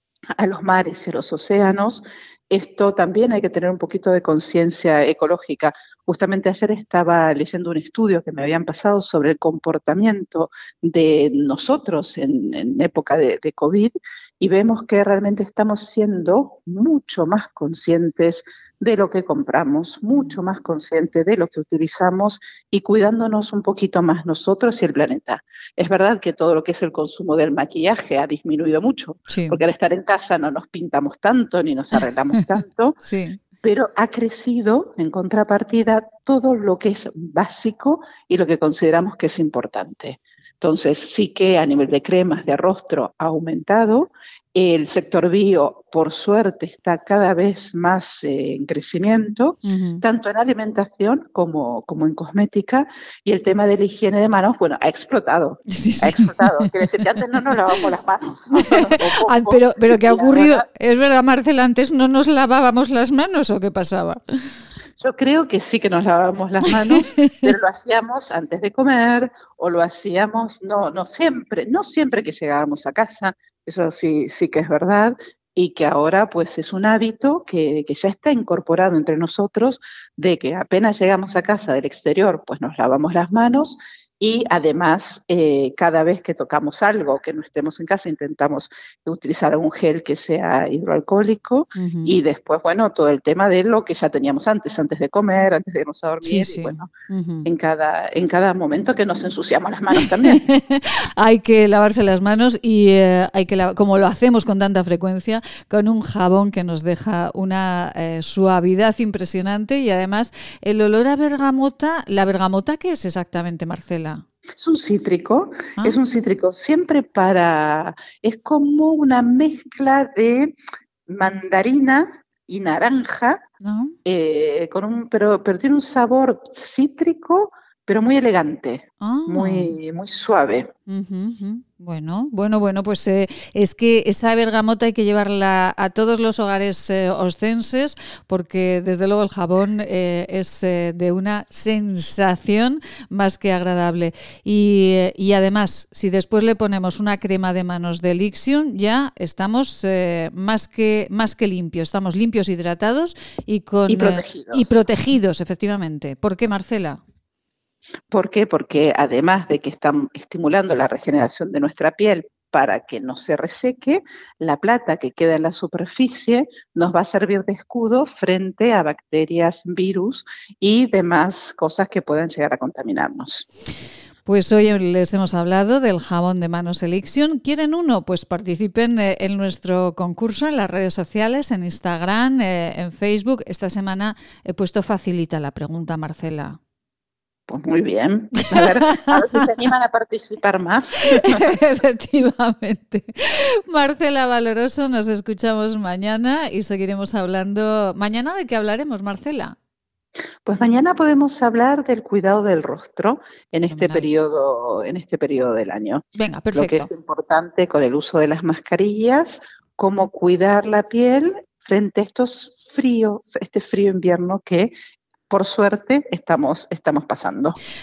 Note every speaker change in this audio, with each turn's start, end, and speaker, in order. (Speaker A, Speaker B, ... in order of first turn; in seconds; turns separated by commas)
Speaker A: 0.4-33.0, Speaker B: 20.1-20.4, Speaker B: 29.3-29.6, Speaker B: 33.0-33.4, Speaker A: 33.6-60.6, Speaker B: 49.6-50.0, Speaker B: 55.7-57.5, Speaker B: 58.5-64.2, Speaker A: 65.0-96.9, Speaker B: 66.8-67.5, Speaker B: 91.8-92.2, Speaker B: 96.2-97.5, Speaker A: 97.5-100.4, Speaker B: 99.9-114.2, Speaker A: 114.6-120.5, Speaker A: 121.1-123.4, Speaker B: 123.6-124.0, Speaker A: 124.0-130.7, Speaker B: 129.0-129.8, Speaker B: 130.9-157.0, Speaker A: 153.9-154.9, Speaker A: 158.1-173.5, Speaker B: 174.3-186.6, Speaker A: 187.5-191.4, Speaker B: 188.3-189.5, Speaker B: 191.0-199.6, Speaker A: 200.5-214.7, Speaker B: 203.7-204.1, Speaker B: 206.2-206.9, Speaker A: 215.3-217.6